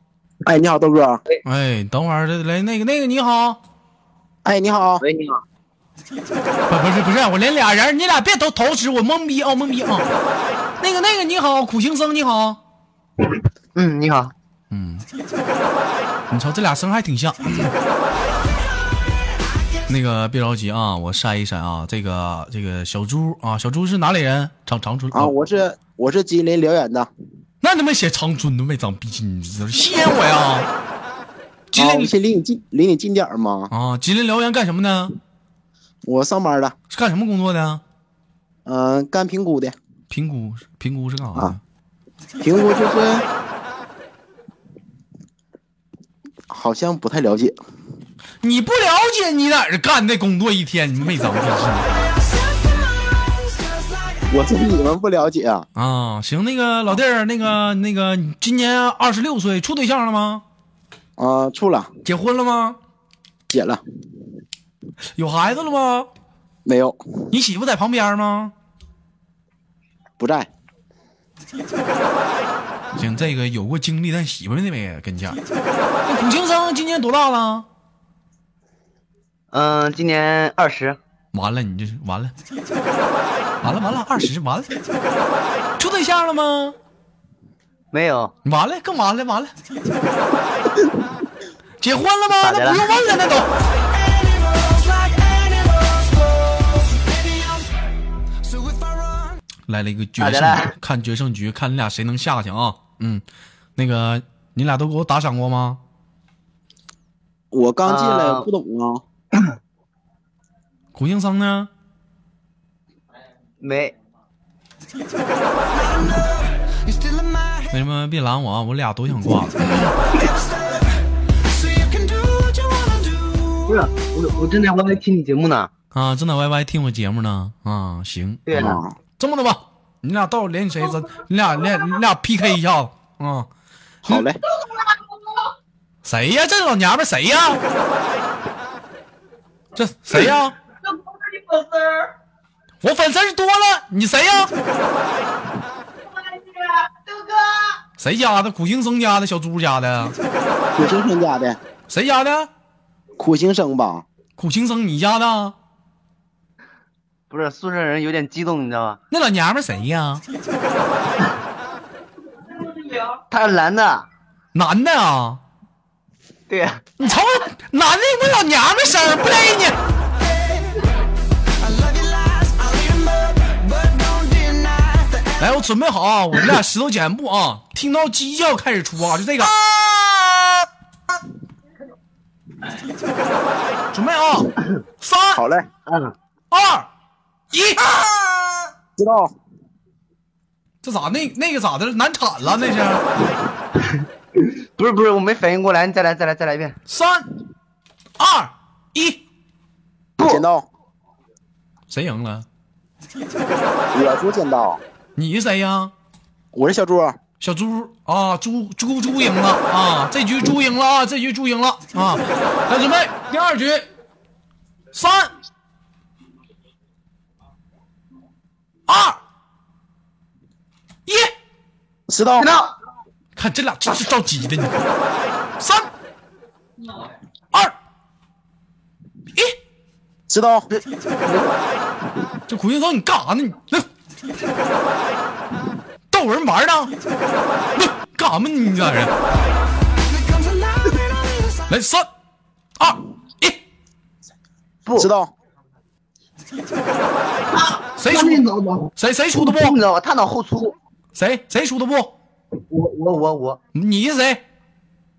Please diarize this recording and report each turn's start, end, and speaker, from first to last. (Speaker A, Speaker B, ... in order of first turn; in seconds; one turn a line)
Speaker A: 0.4-1.2
Speaker B: 1.4-3.6
Speaker A: 4.5-5.0
Speaker C: 5.0-5.4
Speaker B: 6.7-10.1
Speaker B: 10.8-12.6
Speaker C: 13.8-14.3
Speaker B: 14.7-15.1
Speaker B: 16.3-17.7
Speaker B: 19.9-25.4
Speaker A: 25.1-27.1
Speaker B: 27.6-30.7
Speaker B: 31.7-32.1
Speaker A: 31.8-33.7
Speaker B: 33.7-35.2
Speaker A: 36.1-36.8
Speaker B: 36.9-37.8
Speaker A: 38.7-39.8
Speaker B: 40.1-41.6
Speaker A: 42.4-43.3
Speaker A: 46.5-47.6
Speaker B: 48.4-51.9
Speaker D: 52.0-54.2
Speaker A: 54.3-55.7
Speaker B: 55.8-60.4
Speaker A: 61.2-61.9
Speaker B: 62.0-62.8
Speaker A: 63.5-63.8
Speaker B: 65.2-66.1
Speaker A: 66.7-67.0
Speaker B: 67.3-68.5
Speaker A: 70.2-70.5
Speaker B: 73.0-75.4
Speaker B: 76.1-77.7
Speaker C: 79.5-81.0
Speaker B: 81.3-82.3
Speaker B: 83.6-84.7
Speaker B: 85.8-86.8
Speaker C: 87.9-88.3
Speaker B: 88.5-89.5
Speaker B: 91.8-93.5
Speaker C: 92.4-93.0
Speaker D: 93.9-97.7
Speaker D: 98.4-99.4
Speaker B: 99.7-103.2
Speaker C: 100.2-100.8
Speaker B: 103.8-105.8
Speaker A: 107.5-109.0
Speaker C: 107.9-108.5
Speaker B: 110.9-111.7
Speaker C: 113.6-114.0
Speaker D: 115.7-117.7
Speaker B: 117.7-120.0
Speaker D: 120.1-120.9
Speaker D: 121.5-123.8
Speaker C: 123.7-125.7
Speaker B: 125.9-133.5
Speaker C: 128.5-128.8
Speaker A: 128.5-128.9
Speaker A: 134.1-134.4
Speaker B: 136.0-137.6
Speaker B: 139.8-140.6
Speaker B: 142.8-144.5
Speaker B: 148.0-150.2
Speaker A: 150.8-151.6
Speaker B: 151.9-152.5
Speaker A: 153.2-154.1
Speaker B: 154.4-155.6
Speaker C: 157.3-159.0
Speaker B: 159.1-160.2
Speaker C: 163.3-164.1
Speaker B: 164.5-165.4
Speaker C: 166.5-166.9
Speaker B: 167.0-169.8
Speaker D: 170.3-170.8
Speaker D: 171.6-175.6
Speaker B: 175.4-180.0
Speaker B: 183.9-185.4
Speaker A: 185.3-185.7
Speaker C: 185.9-186.2
Speaker B: 186.5-186.9
Speaker B: 187.5-188.0
Speaker A: 189.0-189.3
Speaker B: 190.8-193.0
Speaker C: 193.8-196.8
Speaker B: 196.9-197.3
Speaker B: 198.2-199.2
Speaker C: 200.2-200.4
Speaker A: 200.2-200.7
Speaker B: 201.9-202.5
Speaker A: 203.9-204.8
Speaker B: 205.2-205.9
Speaker A: 206.5-207.2
Speaker B: 207.4-213.9
Speaker B: 214.9-215.3
Speaker B: 218.9-219.2
Speaker B: 221.1-221.3
Speaker A: 222.1-222.5
Speaker C: 222.4-222.7
Speaker B: 223.4-224.8
Speaker B: 225.6-225.9
Speaker A: 230.3-230.7
Speaker C: 230.7-231.6
Speaker B: 232.5-233.9
Speaker B: 236.1-236.9
Speaker B: 237.8-239.1
Speaker D: 240.1-241.7
Speaker B: 241.7-242.1
Speaker B: 242.8-243.6
Speaker A: 245.0-245.3
Speaker C: 247.5-250.8
Speaker B: 248.0-248.4
Speaker B: 249.0-249.8
Speaker B: 251.2-252.2
Speaker C: 252.7-253.6
Speaker B: 253.7-254.4